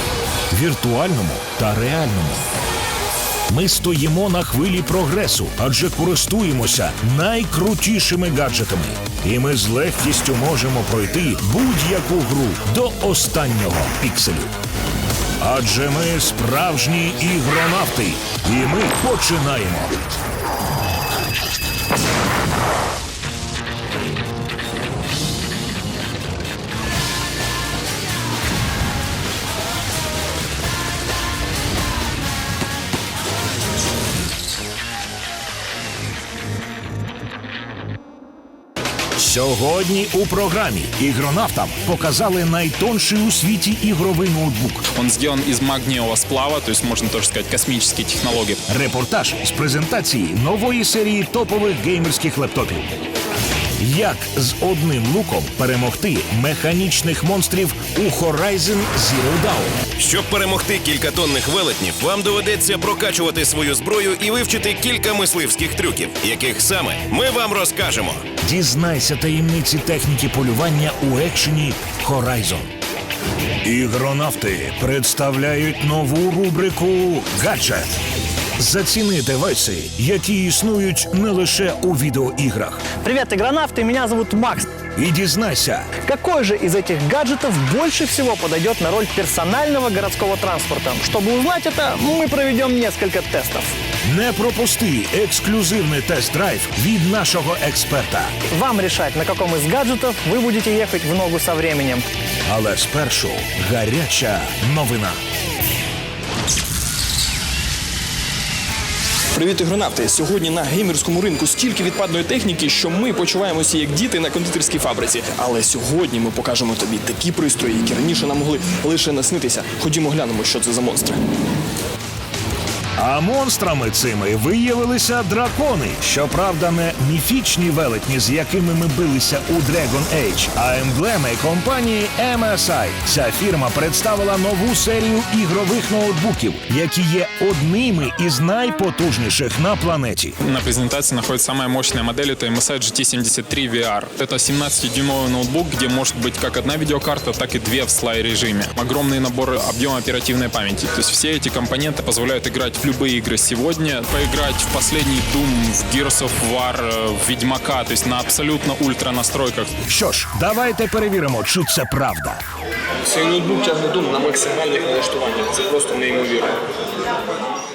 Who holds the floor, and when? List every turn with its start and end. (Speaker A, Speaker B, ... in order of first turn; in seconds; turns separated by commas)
Speaker A: 0.5-2.4, Speaker A: 3.5-14.5, Speaker A: 15.4-19.9, Speaker A: 39.2-44.8, Speaker B: 44.9-48.6, Speaker A: 48.7-52.9, Speaker A: 53.8-59.8, Speaker C: 60.0-68.2, Speaker A: 68.4-72.7, Speaker A: 73.6-77.9, Speaker A: 78.6-82.8, Speaker D: 82.9-84.7, Speaker A: 84.9-85.9, Speaker D: 86.0-93.8, Speaker A: 94.0-98.3, Speaker D: 98.5-102.0, Speaker A: 102.5-105.2, Speaker E: 109.3-121.2, Speaker A: 123.0-140.3, Speaker B: 140.4-159.7, Speaker A: 159.9-162.4, Speaker E: 163.1-166.5